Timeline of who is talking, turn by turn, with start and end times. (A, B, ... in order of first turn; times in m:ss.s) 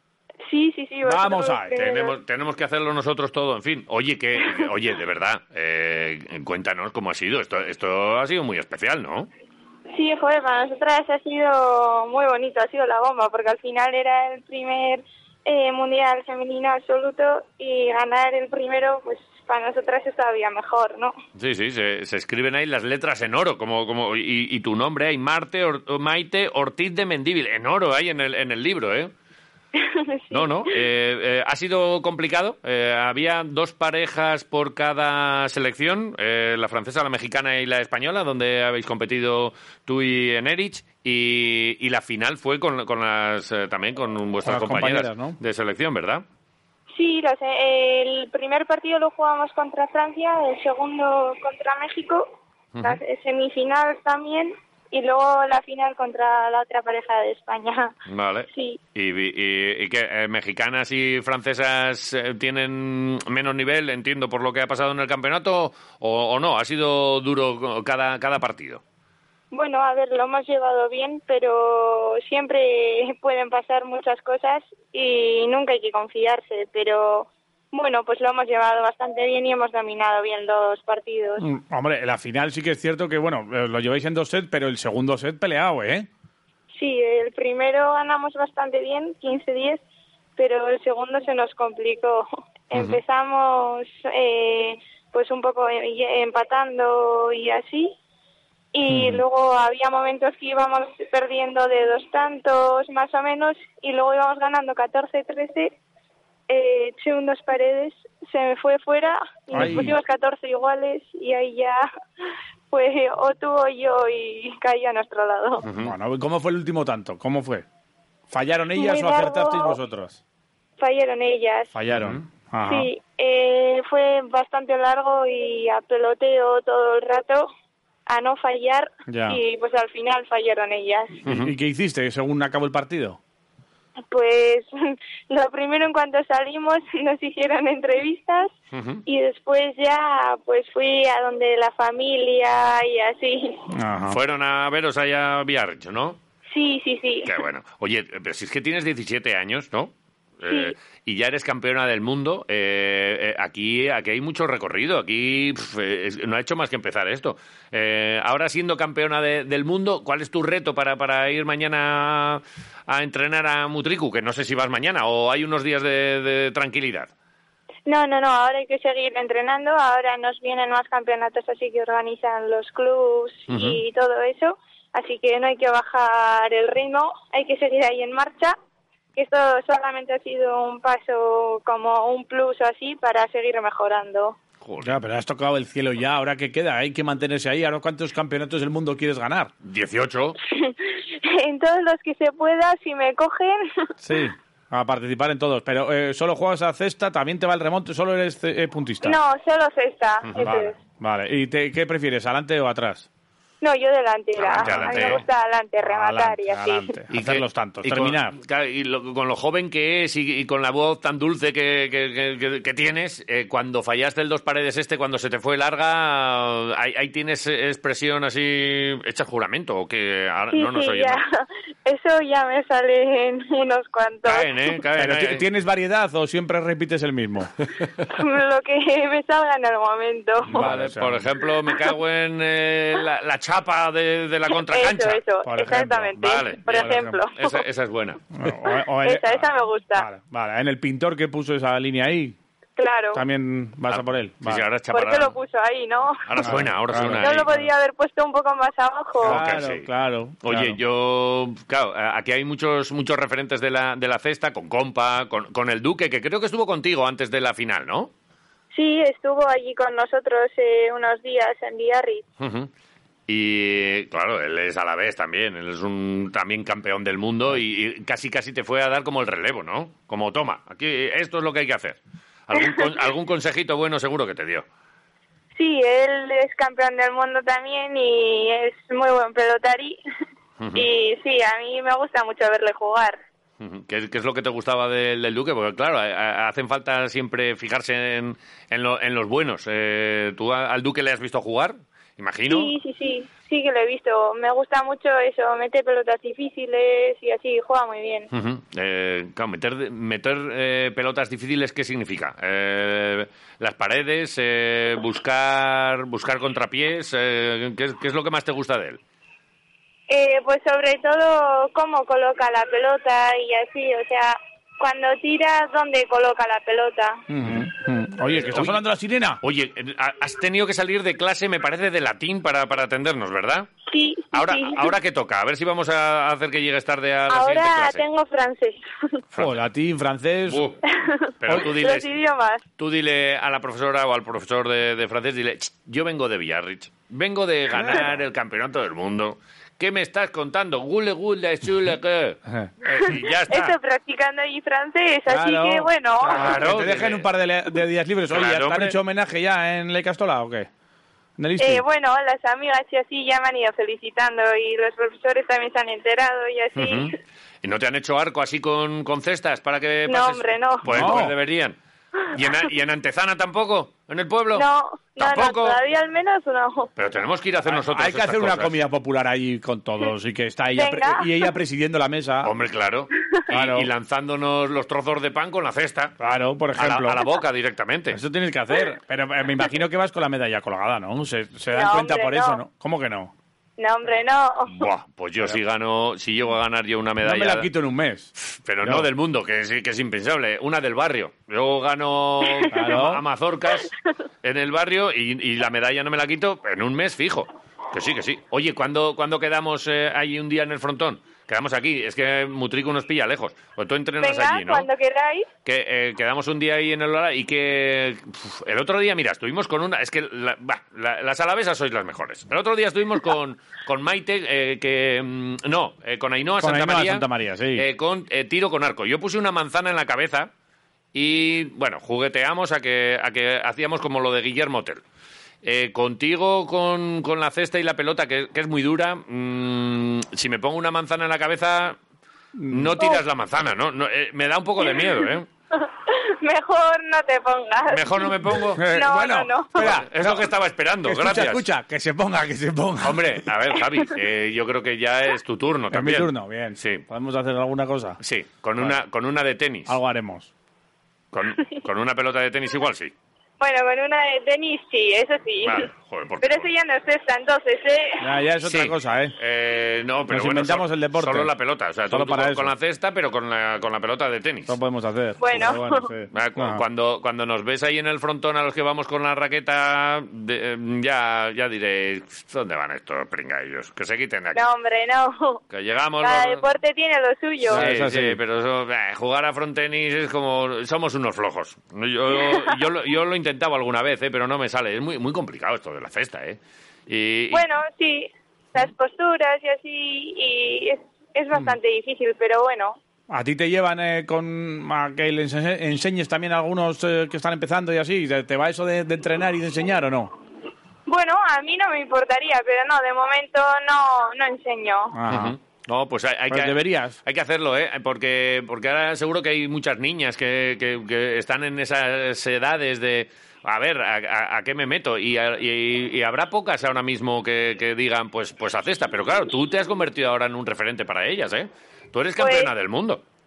0:00.5-0:02.2 A
0:01.0-0:01.8 B
0:01.8-0:09.3 C
0:09.9-0:21.2 A
0:21.4-0:29.1 C
0:29.8-0:30.8 A
0:30.3-0:46.2 C
0:44.4-0:45.4 B
0:46.9-0:52.3 A
0:52.7-0:53.0 C
0:52.8-0:58.0 A
0:58.1-1:08.8 C
0:58.5-0:58.8 A
1:09.5-1:21.4 A
1:21.4-1:26.1 B
1:26.7-1:29.8 A
1:30.4-1:38.0 A
1:32.7-1:33.0 C
1:38.7-1:45.8 A
1:38.9-1:39.2 B
1:46.5-1:51.9 A
1:49.5-1:50.0 B
1:49.6-1:49.8 C
1:52.7-1:55.7 A
1:55.6-1:55.9 C
1:55.8-1:57.6 B
1:58.3-2:00.2 B
1:58.8-1:59.8 A
2:00.8-2:01.7 A
2:01.7-2:02.9 B
2:01.9-2:02.2 C
2:02.6-2:07.5 A
2:08.1-2:11.2 A
2:09.1-2:09.4 B
2:11.2-2:13.2 B
2:11.2-2:11.5 C
2:14.1-2:18.5 A
2:18.7-2:19.0 C
2:19.1-2:23.7 A
2:23.7-2:24.2 B
2:24.1-2:26.2 C
2:26.5-2:27.4 A
2:27.3-2:47.1 C
2:30.5-2:30.7 A
2:47.9-2:58.6 A
2:53.5-2:53.8 C
2:59.2-3:04.4 A
3:04.6-3:05.0 C
3:04.8-3:09.5 B
3:09.6-3:10.4 C
3:10.4-3:13.9 A
3:14.0-3:19.2 B
3:19.0-3:20.8 A
3:20.2-3:20.6 C
3:20.4-3:23.1 B
3:23.6-3:27.0 A
3:24.4-3:25.2 C
3:24.6-3:25.2 B
3:25.9-3:28.4 B
3:27.1-3:41.2 C
3:40.5-3:44.5 A
3:44.2-3:45.5 C
3:45.0-3:47.5 B
3:48.1-3:50.7 A
3:50.5-3:51.3 B
3:50.5-3:55.2 C
3:54.6-3:57.6 A
3:55.4-3:56.2 B
3:56.2-3:58.2 C
3:56.7-3:57.2 B
3:58.3-4:02.4 B
3:59.0-4:00.1 A
4:02.8-4:03.2 A
4:03.1-4:04.6 B
4:03.9-4:05.4 C
4:04.9-4:06.5 A
4:06.3-4:07.5 C
4:06.4-4:07.7 B
4:07.2-4:09.4 A
4:09.2-4:09.9 C
4:09.2-4:10.8 B
4:10.4-4:18.1 C
4:18.7-4:22.3 A
4:22.4-4:22.7 C
4:23.3-4:34.6 C
4:35.6-4:40.0 A
4:40.6-4:40.9 C
4:40.7-4:43.2 A
4:43.6-4:52.8 C
4:52.5-4:58.3 A
4:58.3-5:09.0 C
5:10.1-5:17.2 A
5:17.3-5:19.4 B
5:18.3-5:18.8 C
5:19.4-5:23.7 C
5:23.9-5:24.9 A
5:24.3-5:28.0 C
5:27.3-5:29.2 A
5:29.4-5:30.7 B
5:30.5-5:30.8 C
5:30.9-5:32.6 A
5:31.4-5:32.1 C
5:32.8-5:43.8 C
5:37.7-5:38.1 B
5:42.9-5:46.4 A
5:45.3-5:50.7 B
5:46.3-5:47.3 C
5:48.3-5:49.0 C
5:51.4-5:51.8 B
5:51.6-5:57.1 A
5:56.8-6:04.7 C
6:00.1-6:01.2 A
6:00.8-6:01.4 B
6:04.5-6:06.9 A
6:05.2-6:05.8 C
6:07.0-6:08.8 C
6:07.7-6:12.5 B
6:10.7-6:11.5 A
6:12.4-6:16.1 C
6:13.5-6:13.9 B
6:16.2-6:17.2 B
6:16.8-6:18.2 C
6:18.1-6:23.3 B
6:21.7-6:22.6 A
6:23.8-6:24.9 A
6:24.7-6:27.7 C
6:27.2-6:29.1 B
6:28.4-6:44.9 C
6:32.6-6:32.9 A
6:32.7-6:33.2 B
6:44.2-6:45.5 A
6:45.6-7:00.5 C
6:56.6-6:57.8 B
7:01.1-7:05.0 C
7:05.6-7:12.0 C
7:12.6-7:13.0 B
7:12.7-7:15.5 C
7:14.9-7:15.2 A
7:15.7-7:19.9 A
7:17.9-7:18.9 C
7:18.7-7:20.5 B
7:19.8-7:21.7 C
7:21.0-7:23.4 B
7:23.0-7:27.0 C
7:25.9-7:28.2 B
7:28.2-7:29.9 C
7:29.9-7:30.5 B
7:31.3-7:33.1 C
7:33.6-7:35.9 A
7:35.6-7:36.7 C
7:36.4-7:38.4 A
7:38.2-7:39.4 B
7:38.6-7:44.8 C
7:40.3-7:41.5 B
7:42.1-7:42.7 B
7:44.7-7:46.8 B
7:45.4-7:46.1 A
7:46.3-7:54.6 C
7:54.5-7:55.6 A
7:55.7-7:56.7 C
7:56.2-7:57.9 A
7:57.6-7:58.4 B
7:57.7-8:07.6 C
8:02.3-8:02.8 A
8:07.5-8:13.0 A
8:13.3-8:20.3 B
8:21.1-8:25.2 A
8:25.1-8:25.6 B
8:25.3-8:43.2 C
8:26.5-8:27.2 B
8:42.4-8:42.7 A